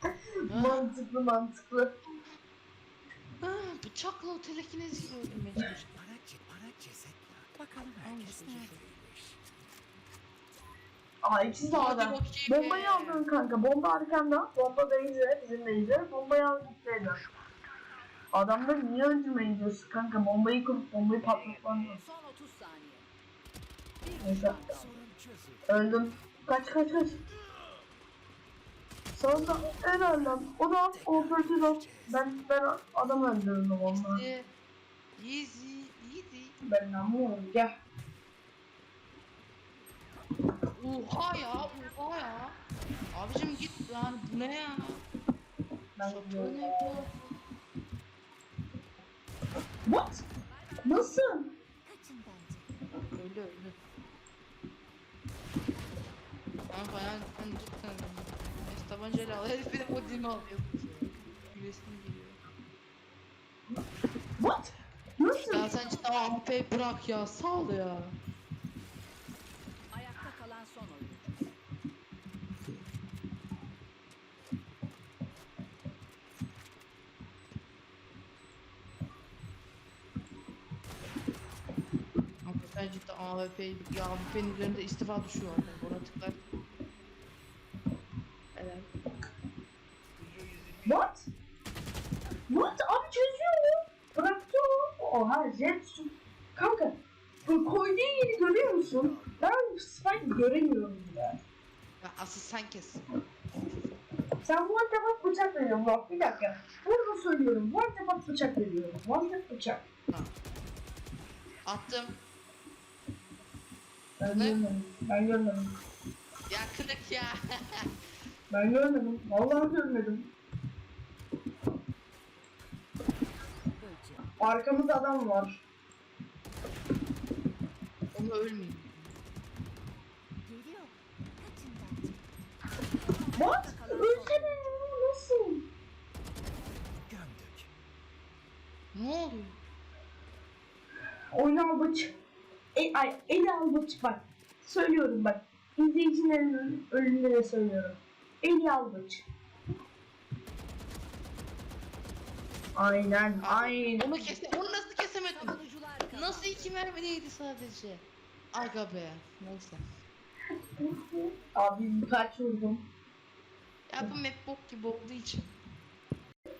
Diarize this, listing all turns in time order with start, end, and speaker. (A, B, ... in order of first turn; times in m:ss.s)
0:00.5-0:01.9 A
0:00.5-0:00.9 B
0:03.4-0:05.9 B
0:06.0-0:09.2 C
0:08.0-0:08.9 B
0:11.2-0:17.2 A
0:11.4-0:13.2 B
0:18.3-0:22.0 A
0:21.2-0:23.1 D
0:24.0-0:25.1 D
0:24.2-0:24.6 A
0:25.0-0:25.6 C
0:25.7-0:27.2 A
0:29.1-0:34.2 A
0:31.2-0:31.8 C
0:33.8-0:34.5 B
0:35.2-0:36.6 B
0:36.6-0:37.7 A
0:40.6-0:42.6 B
0:43.1-0:45.0 B
0:46.0-0:47.0 A
0:46.0-0:47.1 B
0:49.8-0:50.2 A
0:50.7-0:51.2 D
0:50.8-0:51.5 A
0:51.8-0:52.7 D
0:53.0-0:53.7 B
0:56.7-1:02.4 B
1:00.0-1:00.3 D
1:04.4-1:05.7 A
1:05.3-1:08.1 B
1:05.6-1:06.4 D
1:09.9-1:11.2 D
1:22.4-1:26.4 B
1:28.5-1:28.9 B
1:30.8-1:31.3 A
1:32.5-1:41.4 A
1:42.0-1:43.0 B
1:44.4-1:49.8 A
1:51.6-1:52.1 B
1:54.2-1:55.7 A
1:54.3-1:54.6 B
1:56.5-1:57.9 B
1:58.5-2:00.3 A
2:03.8-2:04.3 D
2:04.4-2:05.6 A
2:08.1-2:09.0 B
2:10.4-2:12.2 D
2:13.0-2:14.7 D
2:13.3-2:15.6 A
2:18.9-2:19.6 B
2:21.3-2:22.1 A
2:22.7-2:29.2 A
2:32.7-2:34.1 A
2:33.4-2:35.6 B
2:35.3-2:36.7 D
2:36.1-2:39.8 B
2:40.8-2:42.8 A
2:43.9-2:45.5 B